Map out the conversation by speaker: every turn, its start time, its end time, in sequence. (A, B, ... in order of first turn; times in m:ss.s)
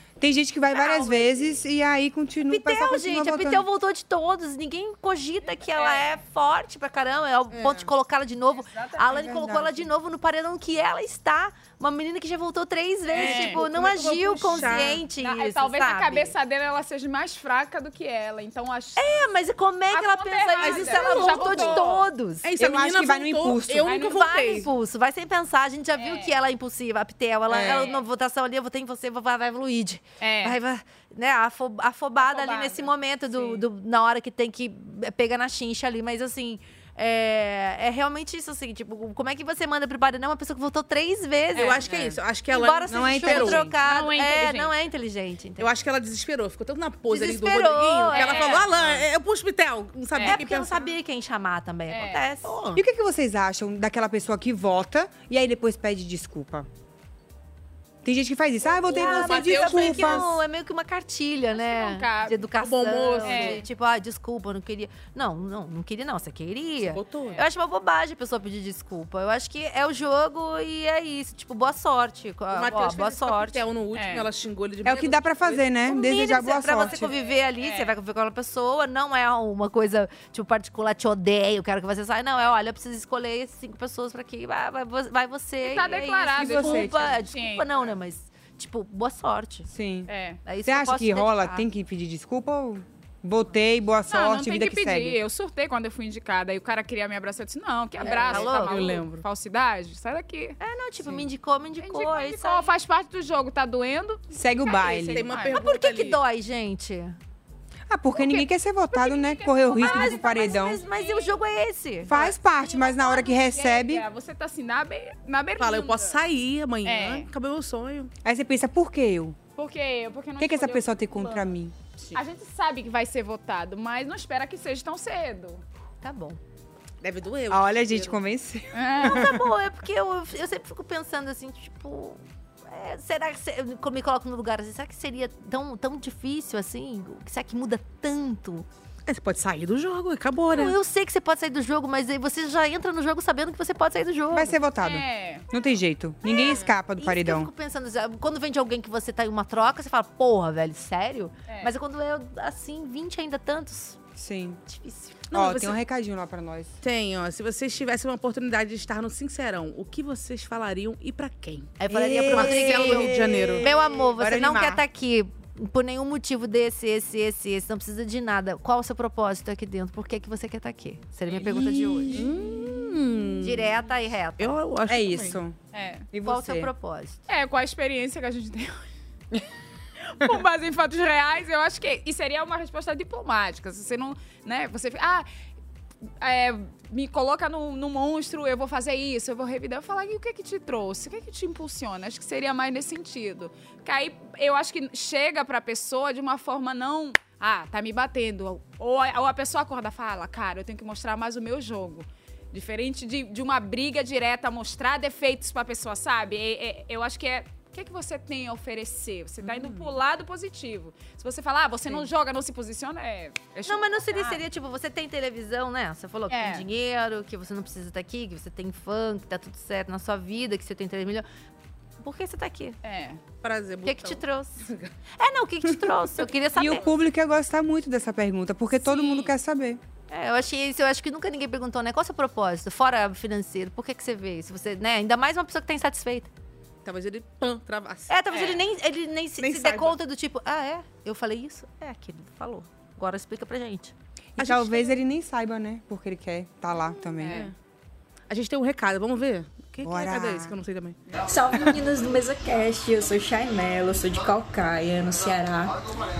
0:00.2-0:03.6 A
0:00.7-0:01.4 B
0:02.5-0:16.3 B
0:05.6-0:06.1 C
0:07.5-0:07.8 D
0:09.1-0:09.9 A
0:13.1-0:13.6 C
0:13.1-0:15.0 D
0:14.7-0:19.2 C
0:19.0-0:22.5 B
0:19.9-0:22.0 C
0:20.6-0:24.7 D
0:22.6-0:23.9 A
0:23.8-0:24.5 C
0:24.0-0:41.9 B
0:26.0-0:26.3 C
0:27.5-0:27.9 A
0:27.6-0:28.0 C
0:30.2-0:30.6 C
0:32.2-0:33.6 C
0:41.6-0:42.2 C
0:41.6-0:43.6 D
0:42.5-0:45.7 B
0:42.9-0:43.7 A
0:43.7-0:44.7 C
0:45.6-0:50.9 D
0:47.1-0:49.0 B
0:48.1-0:48.7 C
0:50.2-0:50.4 C
0:50.2-0:52.8 B
0:51.9-0:52.2 C
0:52.8-0:56.7 A
0:58.0-1:00.3 A
0:58.8-1:00.3 D
0:58.9-1:13.6 B
1:01.5-1:02.4 C
1:02.6-1:03.6 D
1:03.2-1:03.7 C
1:06.8-1:07.4 D
1:12.5-1:15.6 D
1:13.9-1:14.3 C
1:14.8-1:17.1 A
1:15.9-1:29.7 B
1:16.8-1:18.0 C
1:25.6-1:27.9 C
1:26.4-1:27.1 A
1:29.7-1:30.1 A
1:30.1-1:30.4 C
1:30.4-1:31.6 B
1:30.7-1:35.2 A
1:34.1-1:40.6 C
1:38.0-1:39.2 D
1:38.0-1:39.0 B
1:40.6-1:42.7 B
1:41.8-1:45.6 C
1:44.3-1:45.3 A
1:45.1-1:46.2 D
1:45.5-1:47.2 B
1:47.9-1:50.8 A
1:48.1-1:51.4 C
1:49.8-1:52.1 B
1:52.1-1:54.0 A
1:52.1-1:56.2 C
1:55.6-1:58.1 D
1:56.8-1:57.3 C
1:58.2-1:59.4 A
1:59.6-2:01.5 C
2:00.4-2:01.8 A
2:02.1-2:05.6 C
2:06.0-2:06.4 B
2:07.0-2:08.2 D
2:07.5-2:09.4 A
2:08.7-2:09.3 C
2:09.0-2:18.7 B
2:19.1-2:20.8 D
2:20.5-2:24.6 B
2:24.3-2:27.5 A
2:24.8-2:25.5 C
2:26.2-2:34.0 B
2:34.2-2:34.6 A
2:34.7-2:35.2 B
2:35.3-2:35.8 D
2:35.3-2:36.7 A
2:36.8-2:41.8 D
2:41.8-2:52.2 B
2:41.9-2:44.8 A
2:42.3-2:43.7 D
2:52.1-2:53.8 D
2:52.1-2:52.9 A
2:53.4-2:54.6 B
2:54.4-2:55.4 D
2:54.9-2:55.6 A
2:55.7-2:56.1 C
2:56.1-2:56.7 A
2:56.2-2:57.2 B
2:57.3-2:58.8 C
3:00.1-3:05.3 C
3:06.2-3:34.4 C
3:33.7-3:41.3 B
3:36.3-3:36.7 C
3:42.0-3:42.8 B
3:42.8-3:43.2 C
3:43.4-3:44.9 D
3:43.8-3:44.6 B
3:45.2-3:46.8 B
3:45.8-3:46.1 D
3:46.6-3:49.8 A
3:48.9-3:49.3 C
3:50.1-3:56.3 B
3:56.8-3:58.1 D
3:58.1-4:03.9 B
3:58.3-3:58.6 C
3:59.4-4:00.0 D
4:04.4-4:07.5 A
4:04.4-4:05.0 D
4:07.2-4:07.5 C
4:07.2-4:07.5 D
4:08.3-4:11.0 D
4:09.8-4:10.5 A
4:11.2-4:15.8 E